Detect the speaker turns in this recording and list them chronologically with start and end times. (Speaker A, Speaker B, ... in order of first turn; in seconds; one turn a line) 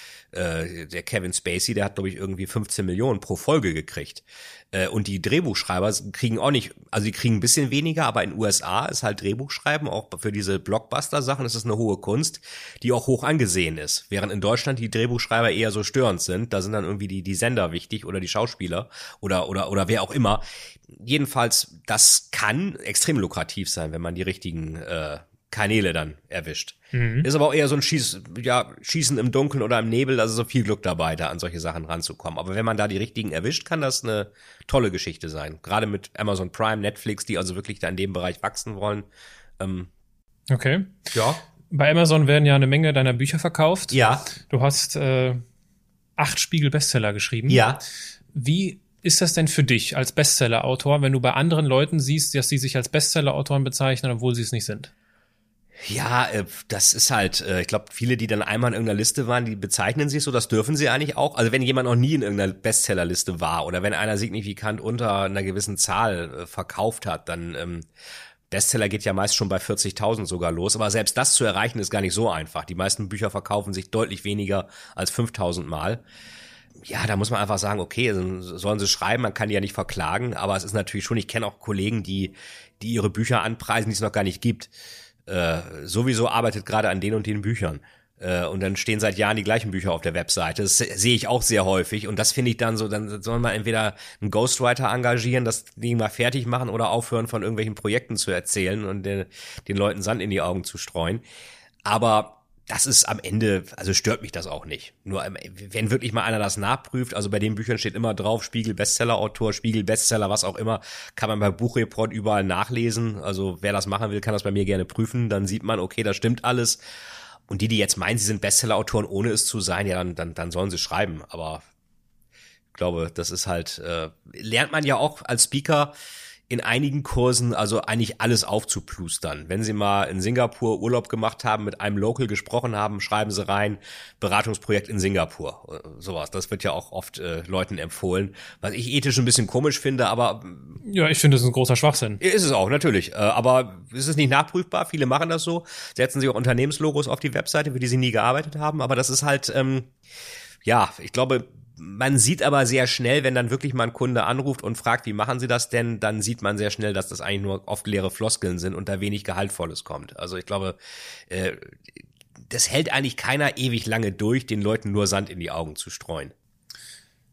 Speaker A: 0.3-39.1
Speaker B: 26.9-27.3
Speaker A: 39.6-39.9
Speaker B: 40.5-41.0
Speaker A: 41.1-41.4
Speaker B: 41.7-45.4
Speaker A: 43.9-44.3
Speaker B: 46.2-47.6
Speaker A: 47.5-47.8
Speaker B: 48.3-54.9
Speaker A: 55.8-67.9
Speaker A: 68.5-76.0
Speaker A: 76.8-84.7
Speaker A: 85.2-101.2
Speaker A: 101.8-116.8
Speaker A: 117.5-121.6
Speaker A: 122.7-125.9
Speaker A: 126.5-140.8
Speaker B: 140.8-142.2
Speaker A: 142.2-149.9
Speaker A: 150.6-160.8
Speaker A: 161.3-161.8
Speaker A: 162.5-166.3